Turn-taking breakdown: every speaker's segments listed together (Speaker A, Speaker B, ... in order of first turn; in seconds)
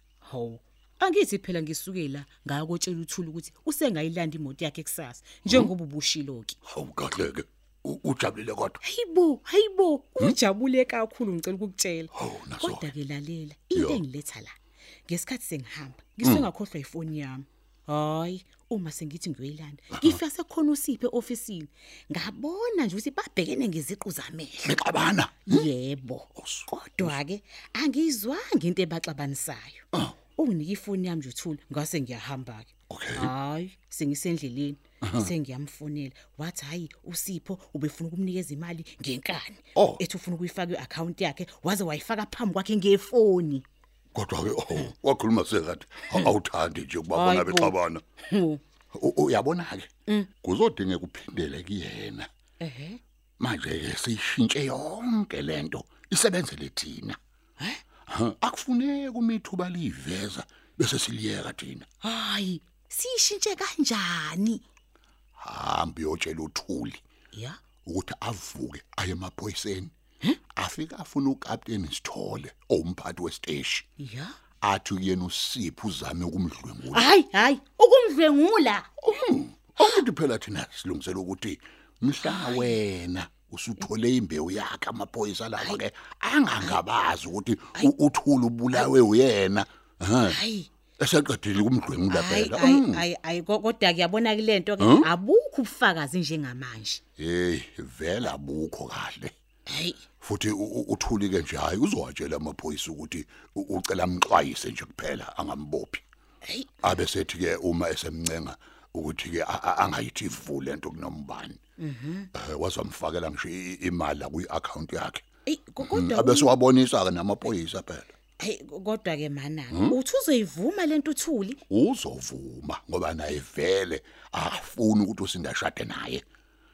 Speaker A: 0.2-6.6, 8.8-14.6, 15.1-24.8, 25.5-43.6, 47.1-47.7, 48.3-48.6, 52.6-53.0, 62.0-64.6, 67.3-67.6, 74.0-74.4, 76.9-78.9, 82.2-82.8, 90.3-90.7, 92.1-97.0, 99.7-100.0, 106.5-106.8, 111.8-112.3, 115.5-116.5, 118.4-121.6
Speaker B: 6.7-8.8, 12.2-12.9, 13.8-14.0, 16.2-16.5, 24.6-25.7, 26.4-27.1, 32.9-33.3, 35.0-35.3, 39.8-40.0, 44.1-48.0, 48.9-49.9, 50.4-52.3, 53.4-57.2, 58.1-61.9, 65.4-67.0, 67.8-69.9, 70.5-73.9, 74.6-77.1, 79.0-90.4, 91.0-93.0, 94.8-95.1, 97.2-99.3, 100.2-106.0, 106.8-111.6, 112.3-115.2, 115.8-118.1, 121.7-126.2